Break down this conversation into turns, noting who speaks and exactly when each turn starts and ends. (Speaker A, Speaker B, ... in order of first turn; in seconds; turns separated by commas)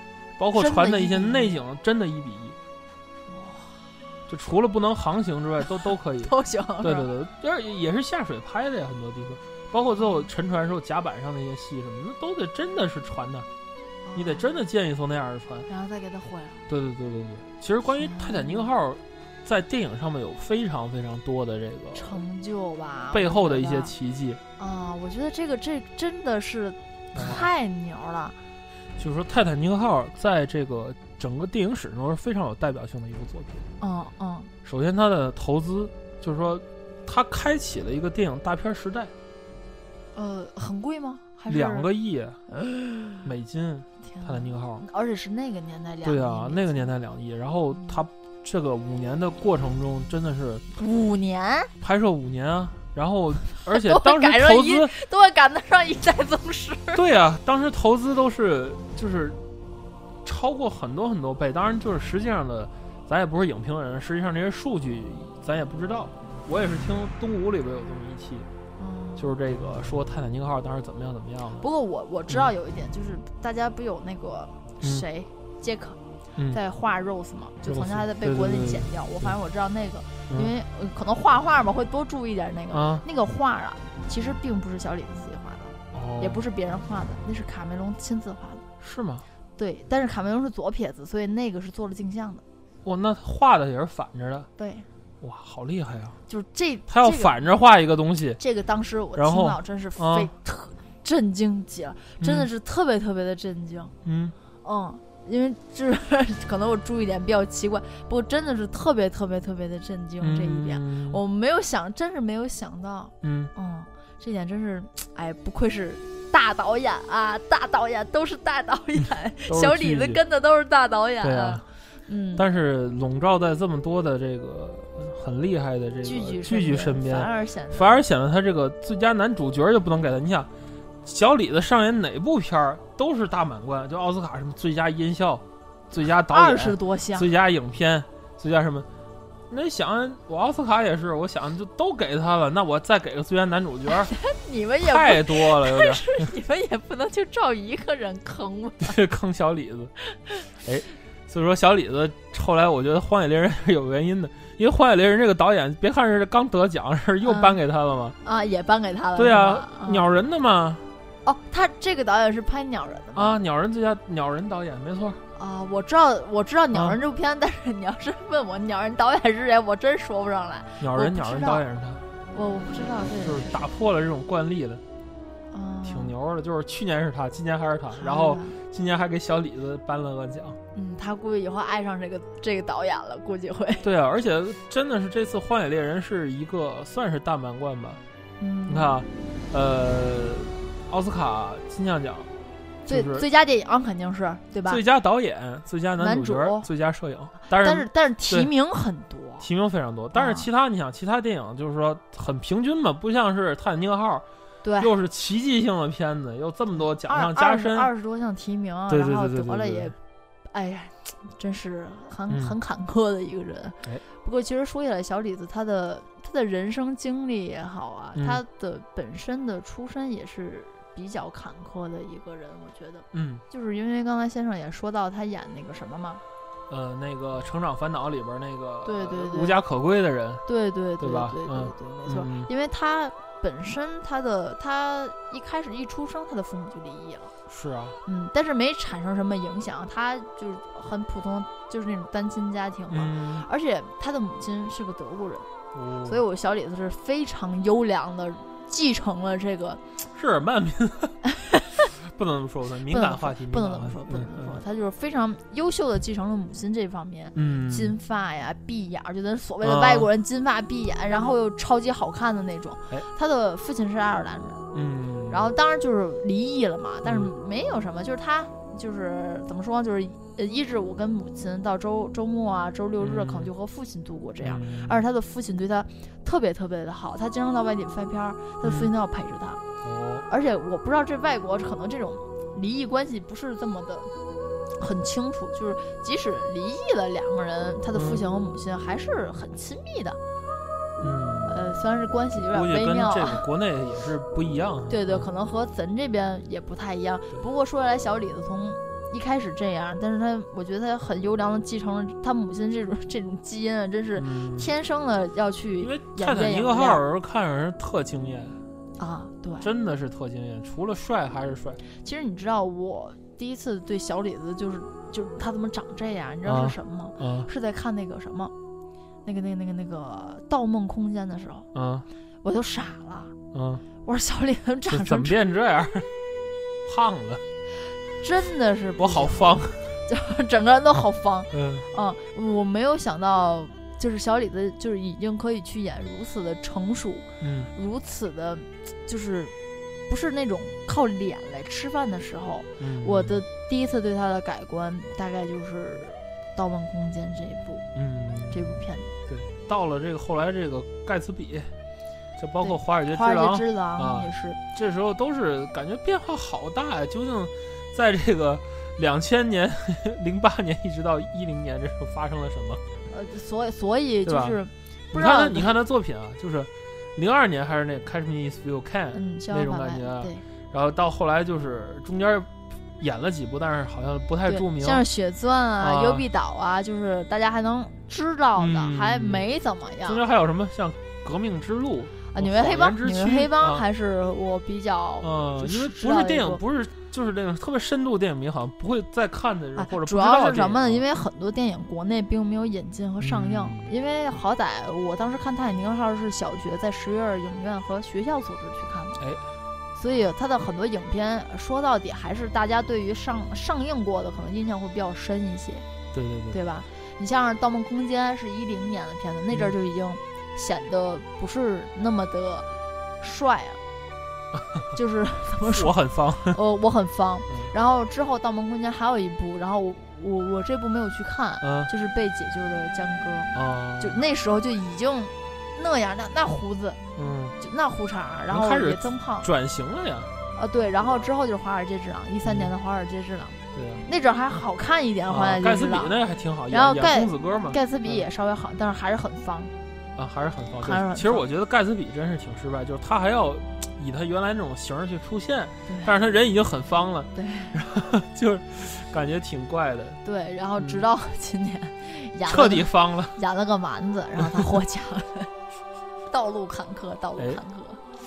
Speaker A: 0.4-2.5, Speaker B: 0.5-1.6, Speaker B: 3.3-3.9, Speaker A: 4.3-13.5, Speaker B: 5.8-7.1, Speaker B: 10.0-10.3, Speaker B: 14.0-14.5, Speaker A: 14.1-15.7, Speaker B: 15.7-16.6, Speaker A: 16.7-22.2, Speaker B: 18.0-18.7, Speaker B: 21.9-23.9, Speaker A: 23.1-24.4, Speaker B: 24.6-28.4, Speaker A: 27.1-27.5, Speaker A: 29.0-33.6, Speaker B: 33.8-34.5, Speaker A: 34.6-39.1, Speaker B: 40.1-41.9, Speaker A: 41.5-42.4, Speaker B: 42.5-43.3, Speaker A: 43.2-44.8, Speaker B: 44.0-46.9, Speaker A: 46.0-50.6, Speaker B: 47.7-48.0, Speaker B: 50.8-51.7, Speaker A: 51.8-54.9, Speaker B: 53.6-57.0, Speaker A: 56.9-59.4, Speaker A: 60.2-68.5, Speaker B: 68.8-69.3, Speaker A: 69.2-71.6, Speaker B: 71.6-88.7, Speaker A: 77.7-79.3, Speaker A: 82.7-83.0, Speaker A: 85.9-86.4, Speaker A: 88.8-89.2, Speaker B: 89.6-92.4, Speaker A: 92.8-94.5, Speaker B: 94.6-94.9, Speaker A: 95.2-96.2, Speaker B: 96.3-97.4, Speaker A: 96.9-98.4, Speaker B: 98.4-103.9, Speaker A: 99.1-100.3, Speaker A: 102.2-102.5, Speaker A: 104.0-104.3, Speaker B: 104.6-122.5, Speaker A: 110.2-111.2, Speaker A: 113.2-113.5, Speaker A: 119.5-120.2, Speaker A: 121.2-121.6, Speaker A: 122.3-130.5, Speaker B: 126.0-128.0, Speaker A: 131.0-138.9, Speaker B: 136.3-137.3, Speaker A: 139.5-144.1, Speaker B: 143.9-149.0, Speaker A: 144.8-146.1, Speaker A: 148.8-149.9, Speaker B: 150.1-150.4, Speaker A: 150.6-158.2, Speaker B: 157.2-157.6, Speaker B: 158.2-160.1, Speaker A: 159.1-160.9, Speaker B: 161.2-163.4, Speaker A: 163.1-165.2, Speaker B: 165.3-171.6, Speaker A: 170.8-172.0, Speaker B: 172.3-173.6, Speaker A: 173.2-174.8, Speaker B: 175.5-176.1, Speaker A: 175.8-180.6, Speaker B: 177.9-178.6, Speaker B: 180.7-183.9, Speaker A: 183.8-188.0, Speaker B: 188.4-189.0, Speaker A: 188.7-192.3, Speaker A: 192.9-193.2, Speaker B: 192.9-194.8, Speaker A: 194.7-198.5, Speaker B: 196.0-196.7, Speaker B: 197.5-199.5, Speaker A: 199.4-204.2, Speaker B: 200.1-200.5, Speaker B: 204.6-204.9, Speaker A: 204.8-207.9, Speaker B: 207.0-209.9, Speaker A: 208.9-209.9, Speaker B: 210.5-226.2, Speaker A: 212.3-212.5, Speaker A: 218.2-218.4, Speaker A: 223.1-223.4, Speaker A: 226.7-230.4, Speaker B: 228.8-229.6, Speaker B: 230.4-237.3, Speaker A: 231.0-232.5, Speaker A: 237.5-238.0, Speaker B: 238.1-245.5, Speaker A: 242.9-243.5, Speaker A: 245.7-246.2, Speaker B: 246.0-249.8, Speaker A: 250.1-251.2, Speaker B: 251.2-251.9, Speaker A: 251.9-254.6, Speaker B: 252.9-264.6, Speaker A: 257.3-257.9, Speaker A: 259.6-260.1, Speaker A: 264.7-265.5, Speaker B: 265.3-279.6, Speaker A: 267.0-267.3, Speaker A: 273.0-273.5, Speaker A: 274.4-275.0, Speaker A: 278.6-278.9, Speaker A: 279.8-280.2, Speaker B: 280.3-284.1, Speaker B: 284.8-290.2, Speaker A: 287.9-288.2, Speaker A: 291.0-291.6, Speaker B: 291.5-293.4, Speaker A: 292.4-295.3, Speaker B: 294.9-307.0, Speaker A: 304.1-304.7, Speaker A: 305.8-308.6, Speaker B: 309.0-309.7, Speaker A: 309.6-311.8, Speaker B: 312.0-318.5, Speaker A: 316.4-317.5, Speaker B: 319.2-321.7, Speaker A: 321.7-322.1, Speaker B: 322.4-323.3, Speaker A: 323.5-323.8, Speaker B: 324.0-325.4, Speaker A: 324.9-326.1, Speaker A: 326.8-327.4, Speaker B: 328.2-339.5, Speaker A: 329.0-329.9, Speaker A: 331.5-331.9, Speaker A: 337.4-337.7, Speaker B: 340.1-347.9, Speaker A: 342.8-343.4, Speaker A: 347.9-351.7, Speaker B: 348.5-349.1, Speaker A: 352.4-362.8, Speaker B: 352.6-354.6, Speaker B: 363.1-365.7, Speaker A: 364.2-364.6, Speaker A: 365.1-375.1, Speaker B: 369.1-370.4, Speaker B: 374.5-380.2, Speaker A: 375.8-376.2, Speaker A: 378.6-379.4, Speaker A: 380.0-383.8, Speaker B: 382.3-386.6, Speaker A: 385.2-391.0, Speaker B: 389.8-399.2, Speaker A: 393.2-393.9, Speaker A: 399.2-399.4, Speaker B: 399.9-405.9, Speaker A: 406.1-406.6, Speaker B: 406.5-412.7, Speaker B: 413.2-413.8, Speaker A: 414.6-414.9, Speaker B: 414.9-427.0, Speaker A: 415.6-416.6, Speaker A: 421.6-421.9, Speaker A: 423.5-424.2, Speaker A: 427.1-427.6, Speaker B: 427.6-429.5, Speaker A: 428.5-430.3, Speaker B: 430.5-436.1, Speaker A: 431.0-431.3, Speaker A: 432.4-432.7, Speaker A: 433.7-434.1, Speaker A: 435.3-438.3, Speaker B: 436.7-439.7, Speaker A: 440.1-450.2, Speaker B: 440.8-441.4, Speaker B: 445.9-446.1, Speaker B: 447.3-447.8, Speaker B: 450.2-455.5, Speaker A: 450.8-451.1, Speaker A: 452.4-453.4, Speaker B: 456.3-458.0, Speaker A: 457.4-457.6